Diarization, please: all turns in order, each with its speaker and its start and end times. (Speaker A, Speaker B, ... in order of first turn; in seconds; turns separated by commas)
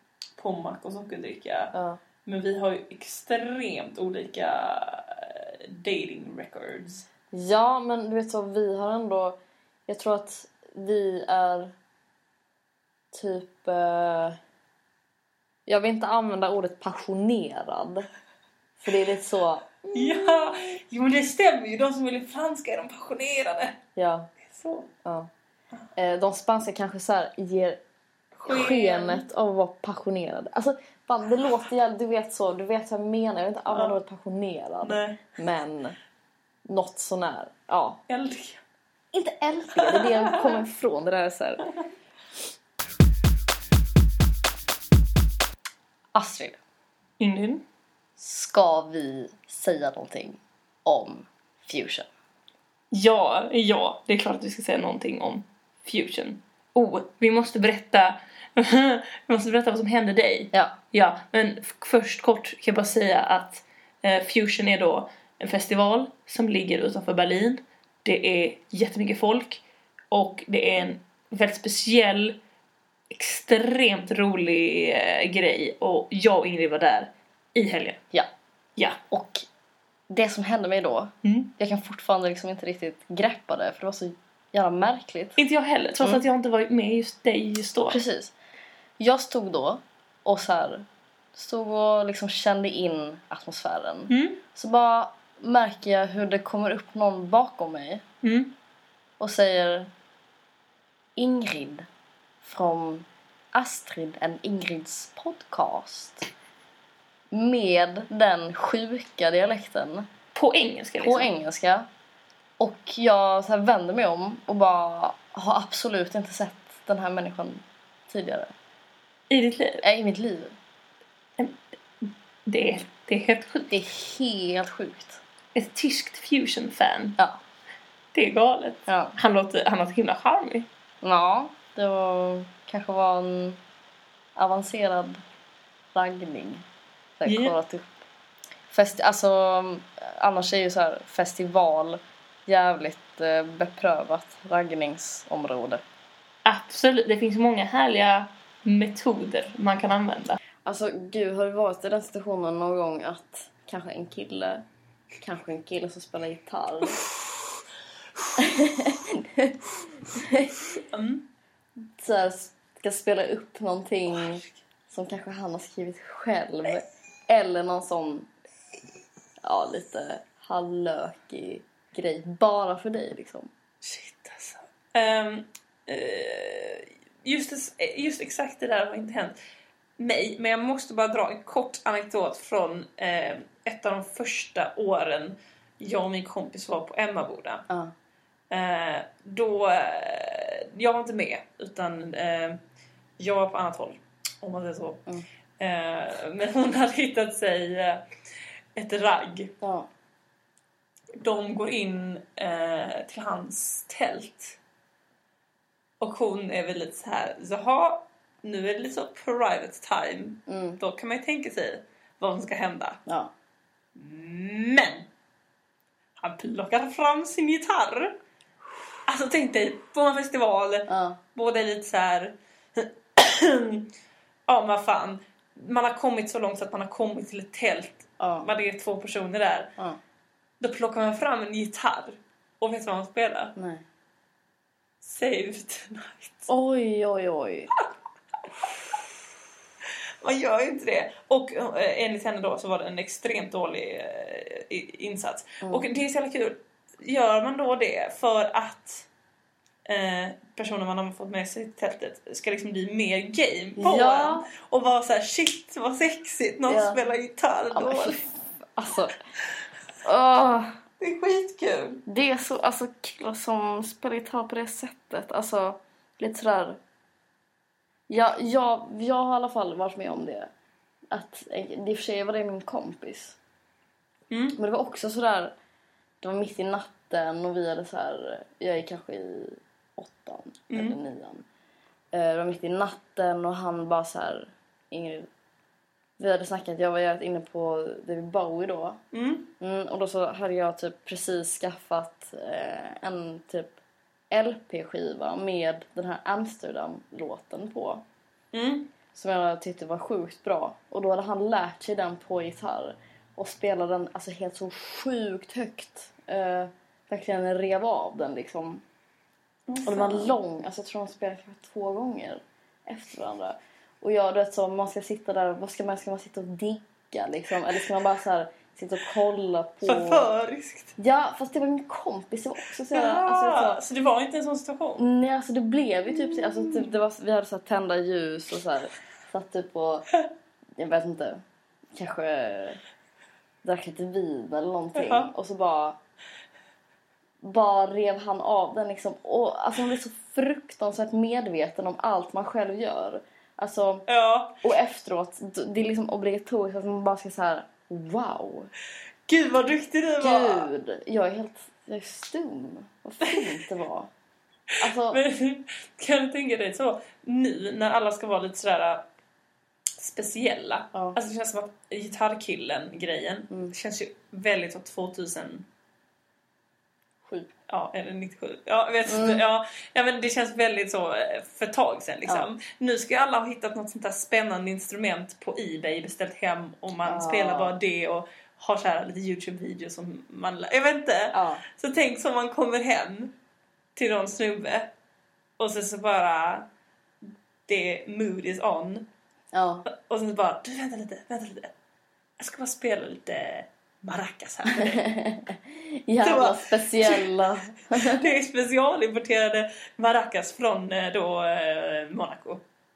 Speaker A: 0.4-7.0, Speaker B: 1.7-2.0, Speaker B: 7.3-11.7, Speaker B: 13.1-14.4, Speaker B: 15.7-18.1, Speaker B: 18.8-20.5, Speaker A: 19.9-23.8, Speaker B: 23.9-24.3, Speaker A: 24.4-24.9, Speaker B: 25.0-25.3, Speaker B: 25.9-27.8, Speaker A: 28.4-29.2, Speaker B: 28.4-36.0, Speaker A: 33.7-34.0, Speaker A: 34.8-35.2, Speaker B: 36.6-38.0, Speaker A: 38.1-38.6, Speaker B: 39.1-41.6, Speaker A: 39.8-40.6, Speaker B: 46.1-46.6, Speaker A: 47.2-47.6, Speaker B: 48.2-52.1, Speaker A: 52.9-72.4, Speaker A: 73.1-78.0, Speaker B: 79.1-79.5, Speaker B: 80.1-85.4, Speaker A: 81.2-81.5, Speaker A: 85.4-88.0, Speaker B: 87.9-88.3, Speaker B: 89.0-98.0, Speaker A: 94.1-94.4, Speaker A: 98.2-98.5, Speaker B: 99.2-99.9, Speaker B: 101.2-101.9, Speaker B: 102.4-106.3, Speaker B: 107.3-110.1, Speaker A: 110.3-111.3, Speaker B: 111.0-111.9, Speaker B: 112.6-118.5, Speaker A: 119.3-119.8, Speaker B: 119.8-120.5, Speaker A: 121.4-123.7, Speaker B: 123.7-125.2, Speaker A: 125.5-127.2, Speaker A: 128.1-130.7, Speaker B: 128.9-129.1, Speaker B: 131.0-133.6, Speaker B: 134.3-135.2, Speaker B: 135.9-136.6, Speaker B: 137.2-138.0, Speaker A: 137.2-137.6, Speaker B: 138.7-145.8, Speaker A: 146.4-150.4, Speaker B: 150.6-154.6, Speaker B: 155.2-157.0, Speaker B: 158.4-160.6, Speaker A: 160.7-161.2, Speaker B: 162.0-168.3, Speaker A: 164.1-164.5, Speaker B: 169.4-173.5, Speaker A: 173.8-179.3, Speaker A: 180.0-187.7, Speaker A: 188.5-192.6, Speaker A: 193.2-195.0, Speaker A: 195.6-198.0, Speaker A: 198.7-199.5, Speaker B: 199.6-199.9, Speaker A: 201.2-204.6, Speaker A: 206.0-213.0, Speaker B: 210.5-210.8, Speaker B: 213.1-213.3, Speaker A: 213.9-215.1, Speaker A: 216.2-218.2, Speaker A: 219.1-223.9, Speaker B: 220.9-221.2, Speaker A: 224.5-229.7, Speaker B: 228.2-228.5, Speaker A: 230.6-233.5, Speaker B: 233.6-233.8, Speaker A: 235.0-236.5, Speaker B: 236.5-237.7, Speaker A: 240.2-249.1, Speaker A: 249.8-258.2, Speaker B: 253.8-254.5, Speaker B: 256.7-257.0, Speaker B: 257.7-259.1, Speaker B: 260.0-260.7, Speaker A: 261.0-262.0, Speaker B: 262.1-266.8, Speaker B: 268.1-270.5, Speaker B: 271.1-273.4, Speaker A: 274.3-274.6, Speaker B: 274.6-275.5, Speaker B: 276.2-281.4, Speaker A: 280.7-281.0, Speaker B: 282.1-285.3, Speaker B: 286.2-289.0, Speaker A: 289.1-289.5, Speaker B: 289.6-293.7, Speaker B: 294.3-298.0, Speaker A: 298.5-298.9, Speaker B: 299.1-308.8, Speaker A: 309.7-310.4, Speaker B: 309.8-320.3, Speaker A: 319.8-320.9, Speaker B: 321.0-323.8, Speaker A: 322.9-325.1, Speaker B: 325.0-330.1, Speaker A: 326.5-326.9, Speaker B: 330.8-331.4, Speaker B: 331.9-332.8, Speaker B: 333.6-336.0, Speaker A: 334.9-335.3, Speaker B: 337.4-344.1, Speaker A: 344.1-344.6, Speaker B: 344.6-348.7, Speaker A: 349.3-350.7, Speaker B: 350.2-354.1, Speaker A: 353.2-353.6, Speaker B: 354.8-355.2, Speaker A: 354.9-359.0, Speaker A: 360.0-365.6, Speaker B: 367.2-367.5, Speaker A: 367.7-383.3, Speaker B: 369.1-369.4, Speaker B: 377.0-377.7, Speaker B: 381.3-381.6, Speaker A: 383.9-384.9, Speaker A: 385.6-386.6, Speaker A: 387.7-389.1, Speaker B: 389.5-389.9, Speaker A: 389.9-391.7, Speaker A: 392.4-395.1, Speaker B: 394.7-398.2, Speaker A: 396.2-397.3, Speaker A: 397.9-402.6